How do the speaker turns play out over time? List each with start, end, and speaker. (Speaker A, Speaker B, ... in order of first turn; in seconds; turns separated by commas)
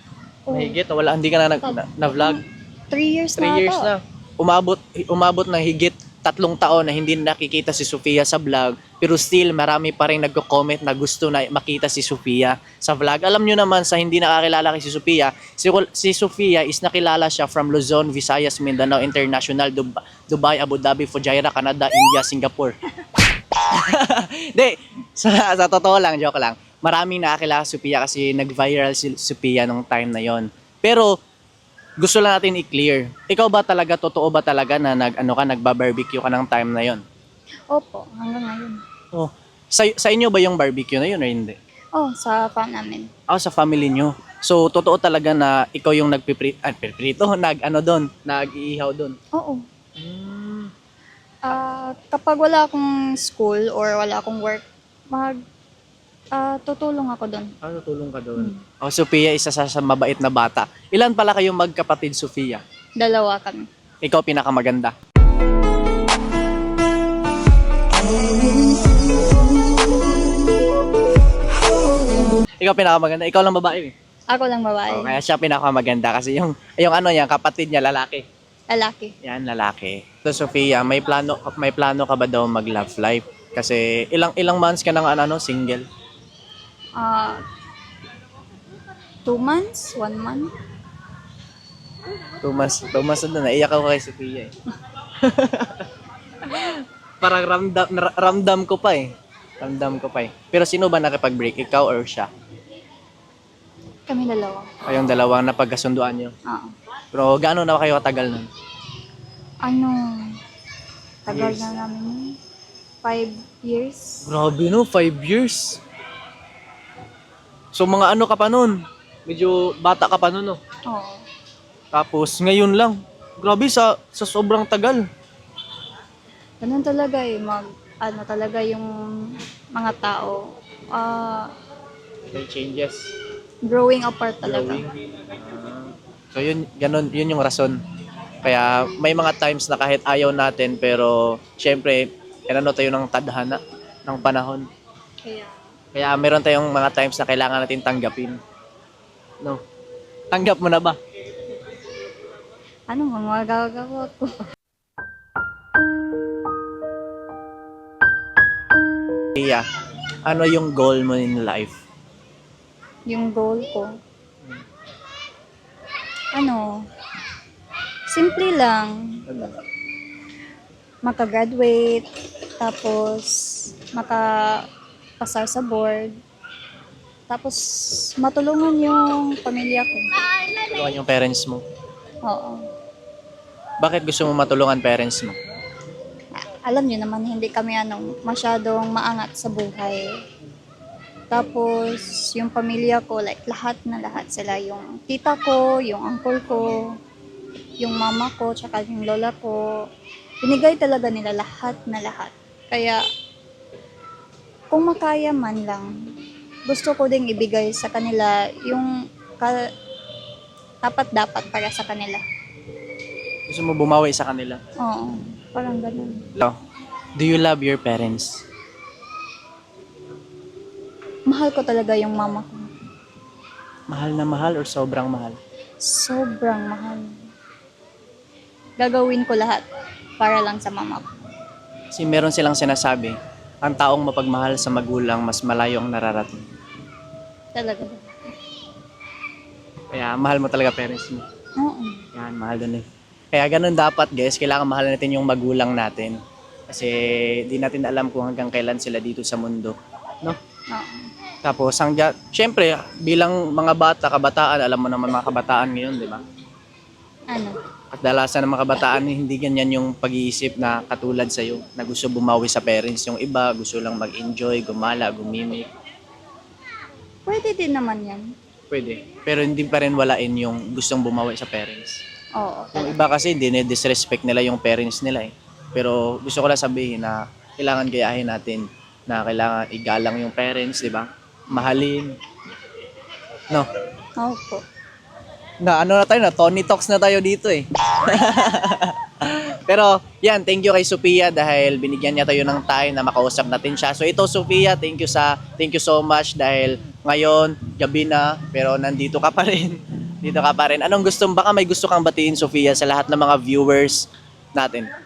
Speaker A: 0.5-0.8, Speaker B: 0.5-2.4, Speaker A: 1.7-3.9, Speaker B: 3.4-22.8, Speaker B: 23.5-31.1, Speaker B: 32.0-37.0, Speaker A: 37.7-38.8, Speaker B: 39.1-41.6, Speaker A: 42.0-43.1, Speaker B: 43.3-49.2, Speaker A: 49.4-49.6, Speaker B: 50.0-50.7, Speaker A: 51.5-55.4, Speaker A: 56.3-57.5, Speaker B: 57.6-62.6, Speaker A: 58.4-58.6, Speaker A: 63.0-63.7, Speaker B: 64.0-64.9, Speaker B: 72.6-73.9, Speaker A: 74.3-75.2, Speaker B: 74.9-78.3, Speaker A: 78.7-79.1, Speaker B: 79.2-85.8, Speaker A: 87.0-87.4, Speaker A: 89.2-90.5, Speaker B: 92.4-94.5, Speaker B: 95.2-95.9, Speaker B: 96.4-102.3, Speaker A: 104.1-104.7, Speaker B: 104.9-106.3, Speaker A: 106.5-106.7, Speaker B: 107.1-108.5, Speaker A: 109.6-110.4, Speaker A: 111.3-112.4, Speaker B: 111.3-111.7, Speaker A: 113.0-114.2, Speaker B: 114.2-115.8, Speaker B: 117.7-120.6, Speaker A: 120.9-121.2, Speaker B: 121.9-125.0, Speaker A: 126.6-131.5, Speaker B: 132.3-133.2, Speaker A: 133.7-134.8, Speaker B: 134.4-137.8, Speaker B: 138.4-144.7, Speaker A: 145.2-145.6, Speaker B: 145.9-148.4, Speaker B: 150.3-151.0, Speaker A: 152.9-154.4, Speaker B: 159.4-159.7, Speaker B: 160.2-161.7, Speaker A: 163.1-163.9, Speaker A: 166.3-166.9, Speaker A: 168.1-169.2, Speaker B: 169.3-169.6, Speaker A: 171.0-172.1, Speaker A: 172.6-174.7, Speaker A: 175.2-176.1, Speaker A: 177.3-180.1, Speaker B: 180.6-181.6, Speaker A: 182.3-182.7, Speaker B: 183.8-185.4, Speaker A: 186.3-190.2, Speaker A: 191.3-197.0, Speaker A: 197.8-199.9, Speaker A: 200.4-203.0, Speaker A: 204.7-205.9, Speaker A: 206.7-209.6, Speaker A: 210.8-212.2, Speaker B: 213.5-214.6, Speaker A: 214.8-216.3, Speaker B: 217.2-218.4, Speaker A: 221.3-222.7, Speaker B: 223.9-225.4, Speaker A: 225.8-227.2, Speaker A: 228.8-229.6, Speaker A: 230.2-231.2, Speaker B: 231.9-236.4, Speaker A: 237.6-238.1, Speaker B: 239.9-241.2, Speaker A: 241.6-242.0, Speaker B: 242.2-246.2, Speaker B: 246.7-250.4, Speaker A: 250.7-251.1, Speaker B: 251.4-256.2, Speaker A: 257.3-257.6, Speaker B: 257.9-265.7, Speaker A: 267.3-268.2, Speaker B: 268.7-272.0, Speaker A: 272.4-272.9, Speaker B: 272.8-282.1, Speaker A: 284.2-284.6, Speaker B: 285.6-304.9